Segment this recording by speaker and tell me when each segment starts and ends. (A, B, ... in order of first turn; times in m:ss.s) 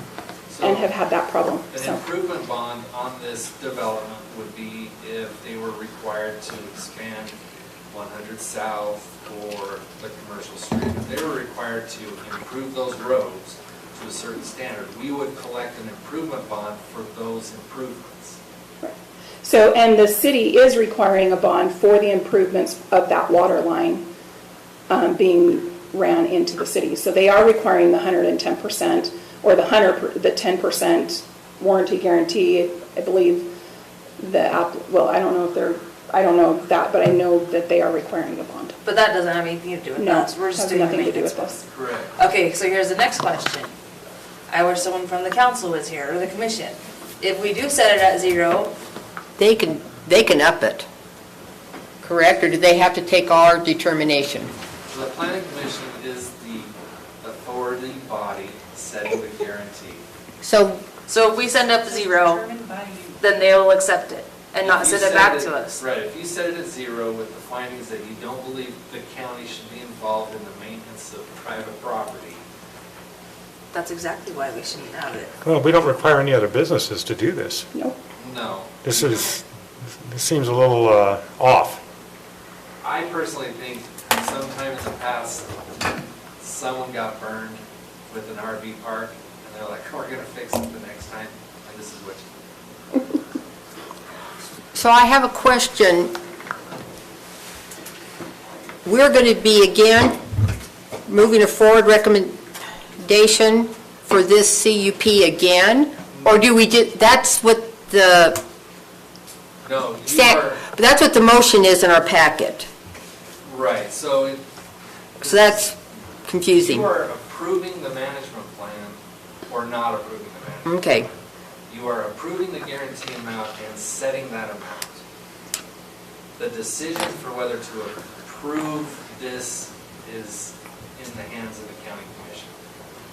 0:00.5-0:00.9 A
0:00.6-0:02.0 B
0:01.7-0:07.3 A
0:07.9-0:18.4 A
0:18.8-0:24.1 B
0:24.9-0:33.5 B
0:34.2-0:38.8 B
0:38.8-0:41.6 C
0:40.0-0:41.6 B
0:41.7-0:42.1 A
0:42.2-0:43.7 C
0:44.5-0:48.7 C
0:49.4-0:50.9 D
0:52.0-0:54.5 D
0:54.9-1:00.0 A
1:00.4-1:00.8 D
1:01.1-1:02.6 C
1:03.1-1:05.8 C
1:04.6-1:12.4 A
1:13.7-1:15.3 C
1:15.4-1:17.7 E
1:18.2-1:19.1 A
1:18.8-1:19.4 E
1:20.0-1:21.8 E
1:22.8-1:25.5 A
1:26.4-1:32.2 A
1:34.7-1:36.1 D
1:38.8-1:40.2 D
1:41.1-1:42.4 D
1:43.0-1:48.4 D
1:49.6-1:50.6 A
1:50.1-1:52.7 D
1:53.4-1:54.4 A
1:55.2-1:55.6 A
1:55.2-1:55.7 D
1:56.3-1:56.9 D
1:56.5-2:00.8 A
2:00.6-2:01.1 D
2:01.7-2:05.0 A
2:06.4-2:12.5 A